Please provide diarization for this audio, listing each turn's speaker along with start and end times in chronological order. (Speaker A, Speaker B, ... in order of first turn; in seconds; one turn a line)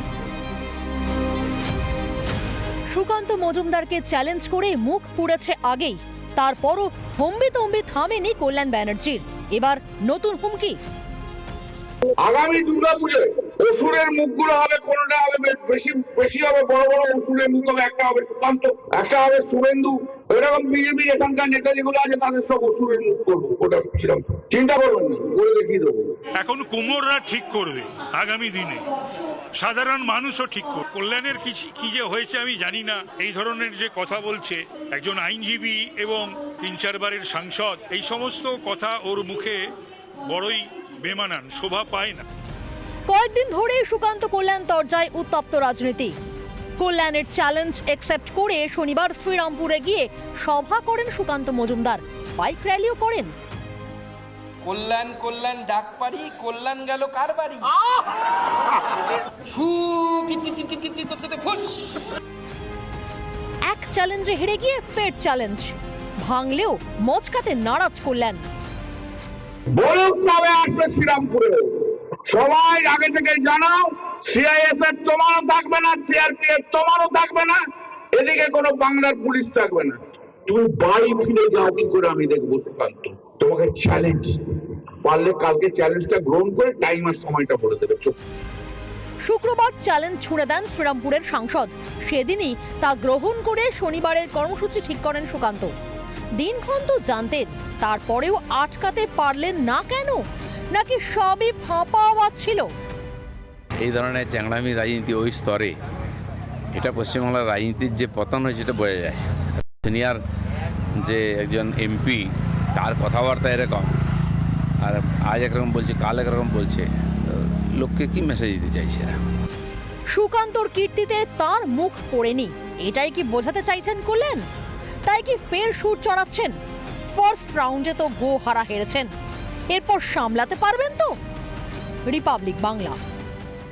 Speaker A: 2.9-10.8
Speaker B: 12.2-26.0
Speaker C: 26.4-28.9
Speaker C: 29.6-39.6
Speaker C: 40.3-42.2
Speaker A: 43.1-46.1
Speaker A: 46.8-53.3
Speaker D: 54.6-57.9
Speaker D: 59.5-62.0
Speaker A: 63.7-68.5
Speaker B: 69.7-77.6
Speaker B: 78.1-88.2
Speaker A: 89.2-95.7
Speaker A: 96.4-102.7
Speaker E: 103.8-105.7
Speaker E: 106.7-109.2
Speaker E: 109.8-110.2
Speaker E: 111.0-113.9
Speaker E: 114.8-119.2
Speaker A: 120.1-124.5
Speaker A: 125.0-126.5
Speaker A: 127.2-129.1
Speaker A: 129.7-131.2
Speaker A: 132.1-133.0